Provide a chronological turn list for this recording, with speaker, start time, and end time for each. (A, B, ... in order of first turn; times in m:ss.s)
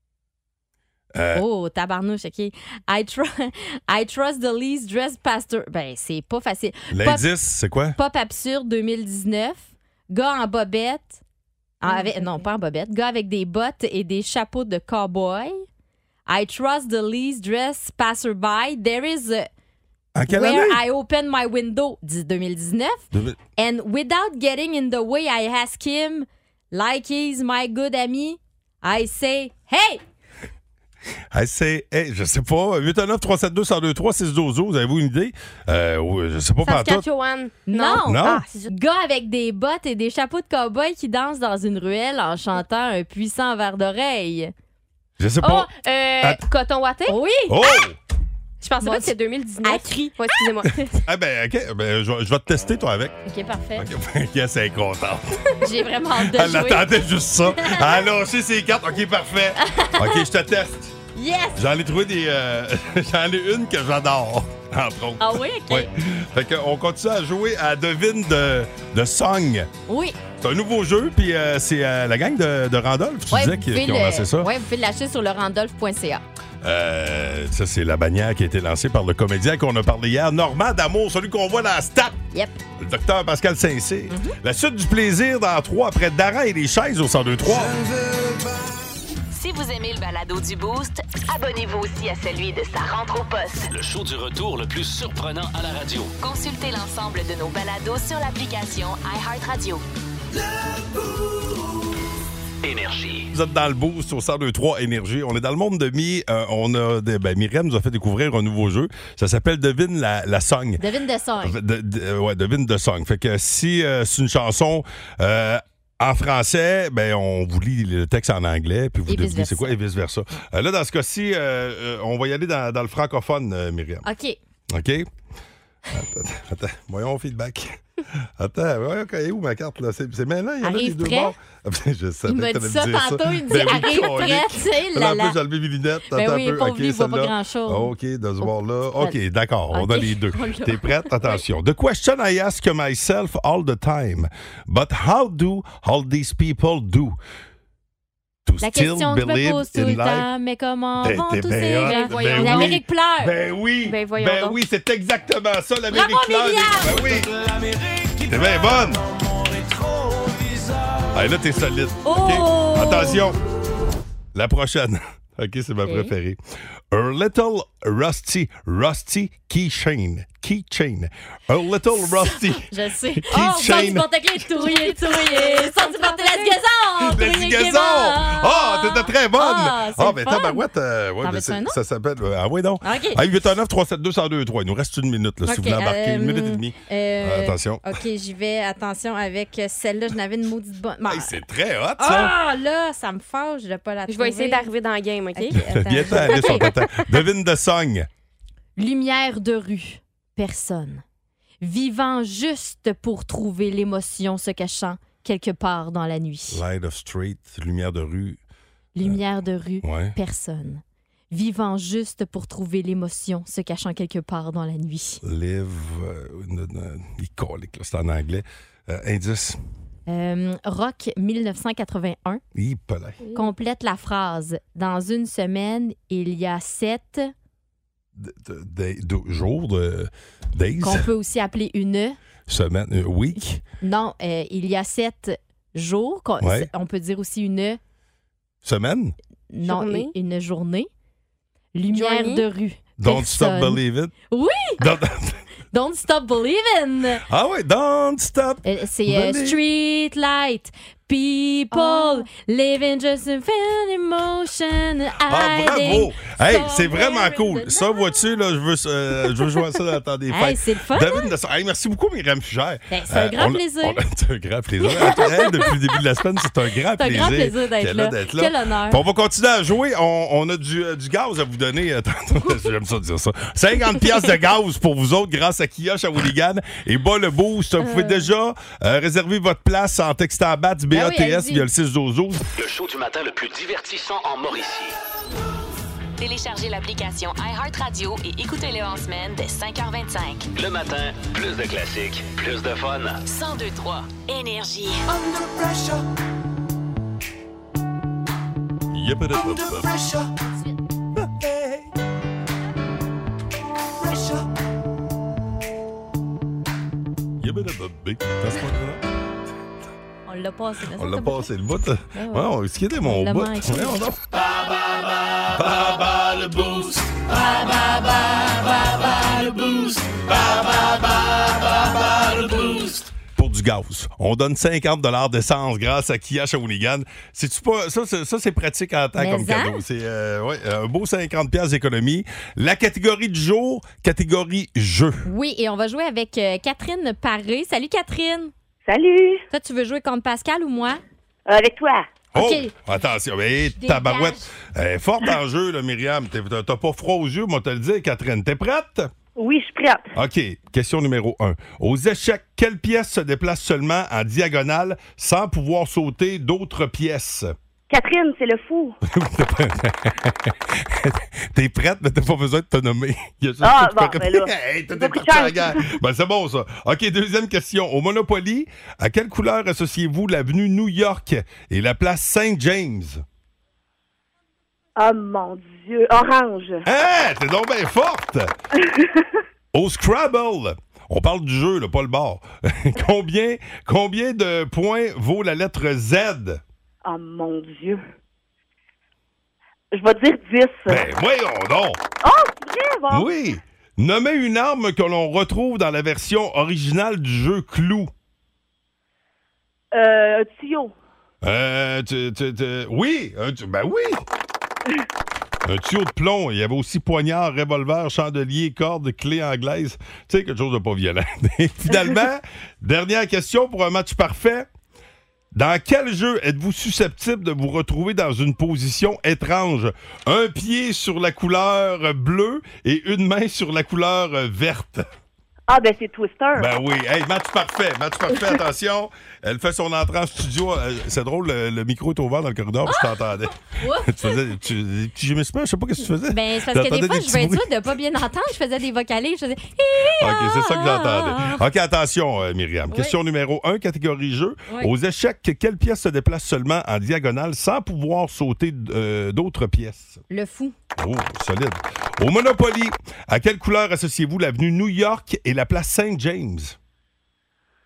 0:01.1-0:01.4 A
0:01.3-0:07.2 B
0:06.9-0:08.0 A
0:08.0-0:11.2 B
0:11.8-0:15.6 B
0:11.8-0:12.4 C
0:16.3-0:19.5 B
0:20.1-0:20.8 A
0:20.3-0:30.0 B
0:23.1-0:23.4 A
0:31.3-0:37.0 A
0:36.6-0:38.7 C
0:37.7-0:44.5 B
0:38.0-0:38.4 A
0:45.2-0:45.7 A
0:45.4-0:47.2 C
0:47.1-0:47.6 B
0:47.5-0:48.0 A
0:48.6-0:50.7 C
0:48.8-0:50.2 B
0:51.0-0:53.2 A
0:53.2-0:53.9 B
0:53.8-0:55.2 A
0:55.6-0:56.9 B
0:56.2-1:00.9 A
0:57.5-0:58.0 B
0:59.6-1:00.3 B
1:01.2-1:01.6 B
1:01.5-1:09.7 A
1:05.2-1:05.9 B
1:09.9-1:10.2 B
1:10.4-1:14.5 A
1:13.3-1:16.2 B
1:16.6-1:22.2 A
1:22.3-1:22.6 B
1:22.8-1:27.9 A
1:24.1-1:24.3 B
1:29.3-1:33.7 D
1:33.7-1:36.1 E
1:36.2-1:39.8 D
1:42.6-1:43.3 E
1:43.3-1:50.8 A
1:50.8-1:51.6 B
1:51.4-2:04.0 A
1:59.1-1:59.8 B
2:04.0-2:04.4 B
2:04.7-2:05.1 A
2:05.9-2:07.8 A
2:08.4-2:27.2 A
2:10.6-2:11.3 B
2:12.3-2:15.4 B
2:16.1-2:19.2 B
2:19.7-2:21.4 B
2:28.4-2:30.3 A
2:28.6-2:33.3 B
2:31.0-2:37.4 A
2:31.8-2:32.8 C
2:33.8-2:34.6 C
2:35.9-2:37.1 B
2:38.2-2:39.1 A
2:41.1-2:43.4 A
2:42.0-2:43.2 B
2:44.3-2:46.4 A
2:45.8-2:46.1 B
2:46.9-2:54.1 A
2:52.0-3:00.6 B
2:54.7-2:56.6 C
2:57.0-3:07.8 A
3:01.2-3:01.8 B
3:02.8-3:03.2 B
3:05.4-3:11.4 B
3:11.1-3:12.3 A
3:12.0-3:14.7 B
3:14.1-3:16.8 C
3:15.3-3:16.8 B
3:15.5-3:18.1 A
3:18.8-3:21.0 B
3:21.6-3:26.6 B
3:26.5-3:28.4 A
3:29.0-3:35.2 B
3:29.8-3:30.2 A
3:35.2-3:39.6 A
3:40.1-3:42.4 B
3:42.5-3:43.2 A
3:43.3-3:47.3 B
3:48.2-3:51.1 A
3:50.8-3:52.2 B
3:52.5-3:53.6 A
3:53.8-3:57.8 B
3:56.4-3:56.7 A
3:58.6-3:59.1 A
3:59.5-4:00.9 B
3:59.6-4:00.1 C
4:01.7-4:04.8 B
4:01.9-4:02.4 C
4:03.0-4:04.1 A
4:04.8-4:05.4 A
4:05.7-4:07.2 B
4:07.3-4:09.6 A
4:08.6-4:18.0 B
4:11.7-4:12.2 C
4:15.3-4:42.4 A
4:19.2-4:19.6 B
4:20.3-4:21.3 B
4:22.9-4:24.0 B
4:24.8-4:25.7 B
4:27.0-4:29.0 B
4:37.8-4:38.3 B
4:40.9-4:41.7 B
4:42.6-4:45.0 E
4:46.2-4:50.5 D
4:50.5-4:53.2 E
4:53.2-4:55.1 D
4:58.9-5:00.2 A
5:01.2-5:01.9 A
5:04.1-5:04.4 A
5:07.4-5:09.0 A
5:10.3-5:11.5 B
5:10.9-5:14.2 A
5:12.1-5:14.0 B
5:15.5-5:17.2 A
5:17.6-5:18.1 B
5:19.1-5:35.2 A
5:29.2-5:29.8 B
5:35.2-5:38.5 B
5:38.8-5:39.4 F
5:39.5-5:41.0 B
5:41.4-5:42.1 F
5:42.3-5:49.1 A
5:42.4-5:42.8 B
5:43.8-5:44.5 B
5:49.4-5:50.1 F
5:50.1-5:57.5 A
5:57.9-5:59.0 F
5:59.1-6:13.2 A
6:03.6-6:05.8 F
6:15.0-6:16.8 F
6:16.8-6:18.5 A
6:18.8-6:19.2 F
6:19.7-6:26.6 A
6:27.0-6:28.0 F
6:29.9-6:31.1 F
6:30.9-6:32.0 A
6:32.2-6:33.3 F
6:33.1-6:38.1 A
6:39.9-6:40.9 F
6:41.4-6:44.2 A
6:45.6-6:54.6 A
6:55.5-7:05.0 A
7:05.7-7:06.7 F
7:06.6-7:17.7 A
7:12.8-7:13.2 B
7:13.7-7:14.6 B
7:16.3-7:21.6 B
7:20.2-7:30.2 A
7:22.9-7:23.2 B
7:30.3-7:30.7 B
7:31.0-7:36.8 A